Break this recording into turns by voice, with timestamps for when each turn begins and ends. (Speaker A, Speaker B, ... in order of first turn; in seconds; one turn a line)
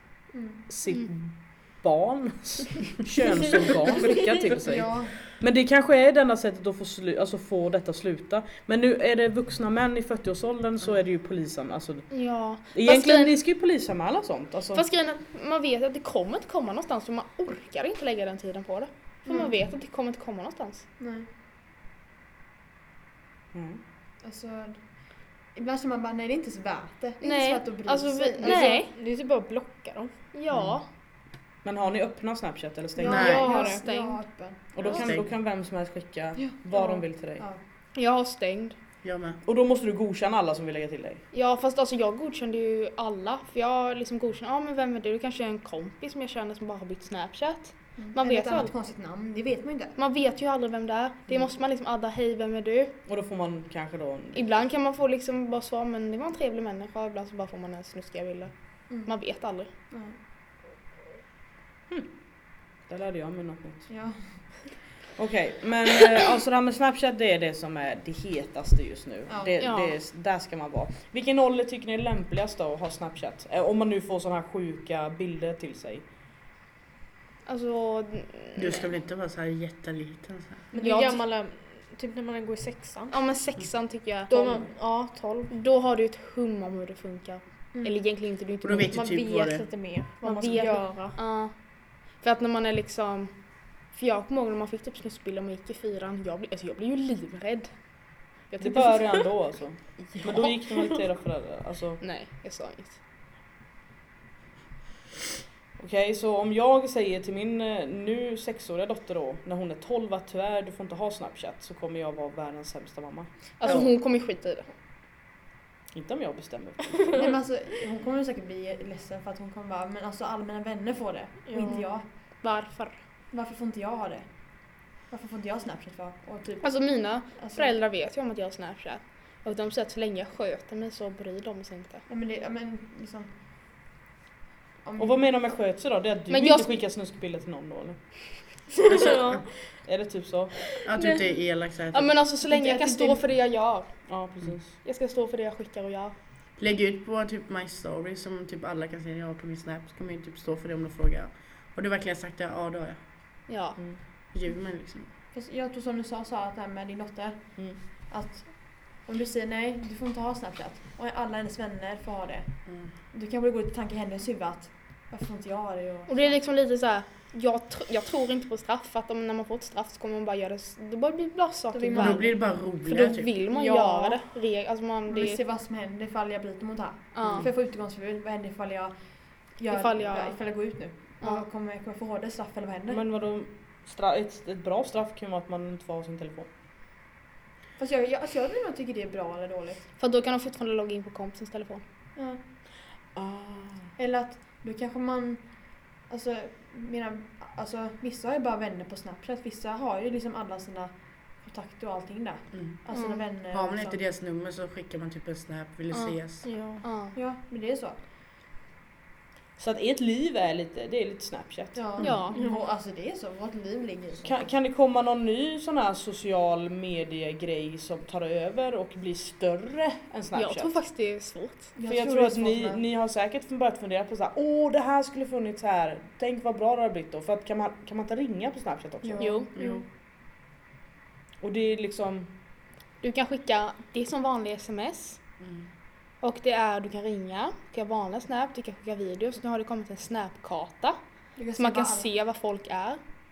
Speaker A: 0.3-0.6
Speaker B: 0.7-14.8
Speaker A: 4.5-5.3
Speaker C: 12.1-13.3
Speaker C: 14.7-20.9
Speaker A: 19.2-19.6
Speaker A: 21.0-21.3
Speaker B: 23.5-23.8
Speaker A: 24.2-28.8
Speaker C: 27.2-28.9
Speaker D: 28.4-30.1
Speaker C: 30.3-30.9
Speaker E: 30.5-30.8
Speaker B: 31.6-33.4
Speaker A: 33.0-35.1
Speaker C: 33.0-34.2
Speaker E: 33.1-33.5
Speaker B: 34.7-37.5
Speaker E: 34.9-35.3
Speaker A: 36.4-37.6
Speaker C: 37.9-38.7
Speaker E: 39.0-39.4
Speaker B: 39.4-41.2
Speaker C: 41.3-48.7
Speaker A: 48.0-49.9
Speaker C: 50.0-53.0
Speaker B: 53.0-54.4
Speaker C: 54.3-59.7
Speaker A: 59.9-60.2
Speaker B: 62.6-63.9
Speaker A: 63.9-64.8
Speaker B: 65.2-76.0
Speaker A: 69.3-69.5
Speaker C: 69.6-70.0
Speaker C: 77.5-78.9
Speaker E: 78.5-80.6
Speaker D: 80.7-83.2
Speaker C: 80.8-81.2
Speaker C: 83.1-84.7
Speaker D: 84.3-85.5
Speaker C: 85.5-88.9
Speaker E: 88.6-89.9
Speaker D: 88.9-91.2
Speaker C: 90.2-99.2
Speaker B: 98.6-102.0
Speaker C: 102.0-103.0
Speaker B: 105.8-113.9
Speaker C: 113.6-114.7
Speaker B: 115.9-117.2
Speaker A: 117.1-122.0
Speaker D: 121.4-121.8
Speaker C: 121.6-121.8
Speaker C: 122.4-123.0
Speaker A: 123.3-127.7
Speaker C: 126.6-132.0
Speaker A: 132.1-133.3
Speaker A: 134.8-135.2
Speaker B: 135.0-138.6
Speaker C: 136.3-136.8
Speaker D: 138.8-139.6
Speaker E: 138.9-139.5
Speaker B: 139.8-140.6
Speaker E: 140.8-142.1
Speaker C: 141.0-141.2
Speaker C: 141.9-146.1
Speaker A: 142.4-143.2
Speaker B: 144.1-144.7
Speaker E: 146.6-153.0
Speaker C: 153.5-153.8
Speaker E: 154.3-155.1
Speaker A: 155.3-166.4
Speaker E: 162.7-162.9
Speaker C: 166.1-175.4
Speaker A: 171.7-172.3
Speaker E: 171.9-173.3
Speaker D: 173.5-174.3
Speaker A: 175.1-183.0
Speaker C: 177.1-177.5
Speaker C: 179.7-180.7
Speaker C: 181.2-181.4
Speaker B: 182.9-186.5
Speaker A: 187.8-189.8
Speaker C: 190.0-191.8
Speaker A: 192.2-192.4
Speaker B: 193.2-193.9
Speaker A: 193.9-204.0
Speaker E: 202.5-202.8
Speaker C: 202.9-203.2
Speaker E: 203.5-206.4
Speaker C: 205.9-207.1
Speaker D: 206.4-206.9
Speaker A: 207.1-208.0
Speaker B: 209.6-212.3
Speaker A: 211.7-214.4
Speaker C: 212.0-212.4
Speaker D: 212.3-212.7
Speaker B: 214.2-220.8
Speaker C: 220.3-221.7
Speaker A: 221.8-222.8
Speaker B: 221.8-229.4
Speaker A: 229.0-229.8
Speaker C: 229.2-229.5
Speaker E: 229.5-229.8
Speaker B: 231.4-232.3
Speaker C: 233.0-235.2
Speaker E: 235.4-235.7
Speaker C: 236.2-241.0
Speaker A: 241.3-242.1
Speaker C: 241.5-243.0